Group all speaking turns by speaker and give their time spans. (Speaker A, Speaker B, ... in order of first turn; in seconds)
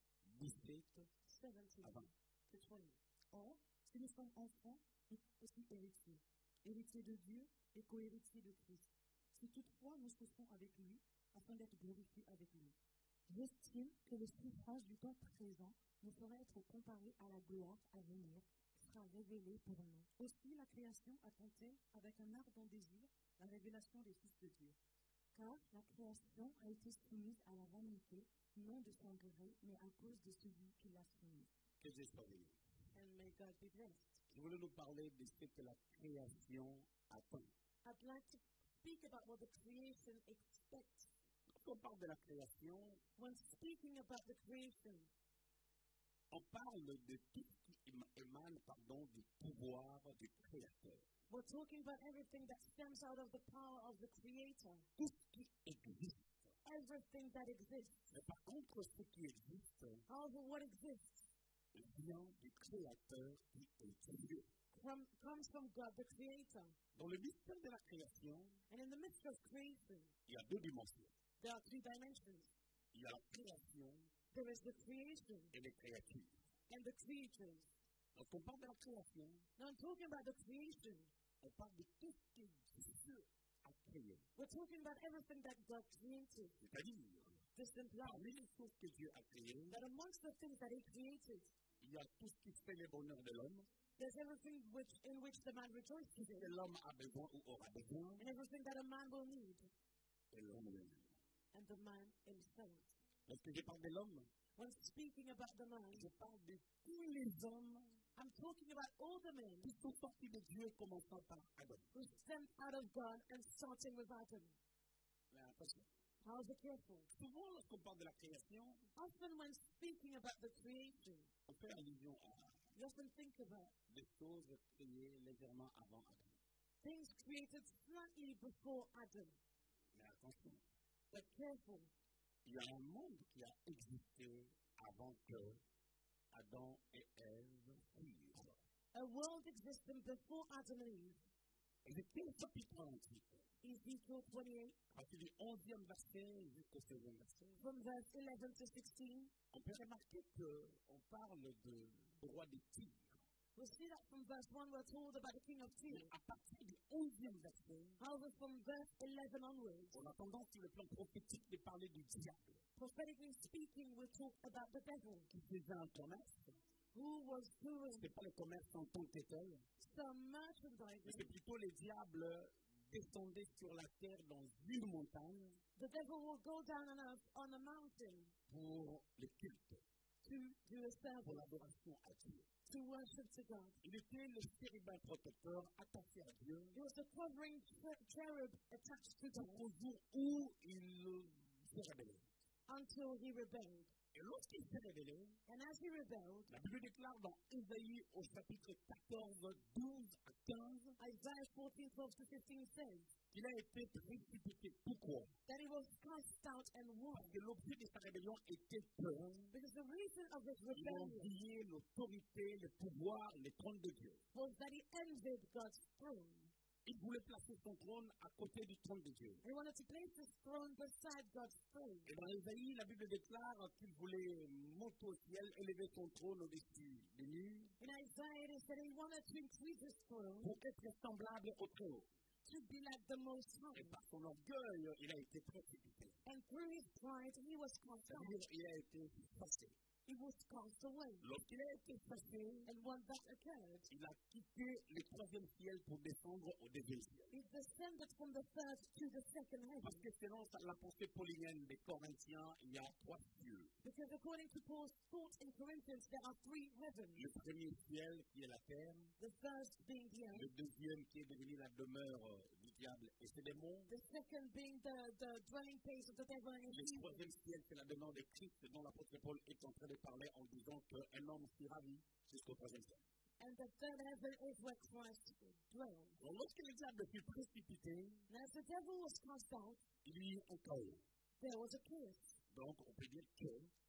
Speaker A: 0.2-1.1, 1.8-2.1, 31.8-32.6, 34.3-37.5, 41.5-43.0, 46.3-51.0, 55.0-56.5, 58.1-60.0, 61.7-64.5, 66.9-68.6, 70.3-71.1, 72.9-74.1, 75.5-76.4, 78.1-79.5, 81.4-84.3, 86.6-87.4, 88.0-89.8, 91.8-93.7, 96.2-98.3, 100.3-101.2, 103.2-104.3, 105.9-108.0, 109.6-111.9, 115.3-115.9, 117.1-118.9, 121.5-122.6, 123.9-126.4, 129.9-130.6, 132.4-135.6, 136.3-138.6, 141.8-143.4, 144.9-147.6, 149.5-153.2, 155.9-158.0, 159.9-162.6, 165.3-166.6, 167.9-169.6, 171.0-175.6, 178.5-179.8, 181.2-182.5, 183.8-186.8, 189.3-192.3, 194.1-195.4, 196.5-201.0, 203.3-205.3, 207.1-209.5, 210.7-214.2, 216.8-219.4, 222.0-227.7, 230.4-232.1, 233.7-236.2, 238.1-239.8, 241.2-242.7, 243.9-247.3, 249.8-253.7, 257.1-259.1, 260.3-263.9, 266.7-273.0, 276.2-278.2, 280.0-281.0, 282.5-283.7
Speaker B: 1.2-3.0, 32.9-34.2, 37.8-41.1, 43.2-45.1, 51.3-54.9, 56.6-58.1, 60.1-61.3, 64.7-66.7, 68.7-70.2, 71.4-72.5, 74.3-75.5, 76.7-77.7, 79.6-81.1, 84.3-86.6, 87.5-88.2, 89.7-91.5, 94.0-96.5, 98.2-99.7, 101.5-102.9, 104.5-106.1, 108.2-109.7, 111.9-114.6, 116.2-117.1, 118.9-121.3, 122.7-123.7, 126.8-129.4, 131.1-131.9, 138.9-141.2, 143.6-144.8, 147.5-149.3, 153.5-156.1, 158.0-159.9, 162.8-165.3, 166.9-168.1, 169.8-171.3, 175.8-178.3, 180.2-181.4, 182.7-183.8, 186.7-189.6, 192.7-193.9, 195.5-196.5, 201.0-203.1, 205.5-207.3, 209.5-211.3, 214.3-216.5, 219.4-222.1, 227.8-230.6, 232.4-234.0, 236.2-238.4, 240.1-241.2, 242.7-243.9, 247.3-250.1, 253.8-257.3, 259.2-260.5, 263.9-267.3, 273.4-276.2, 278.3-279.8, 281.4-282.4
Speaker C: 3.3-24.8, 25.3-31.5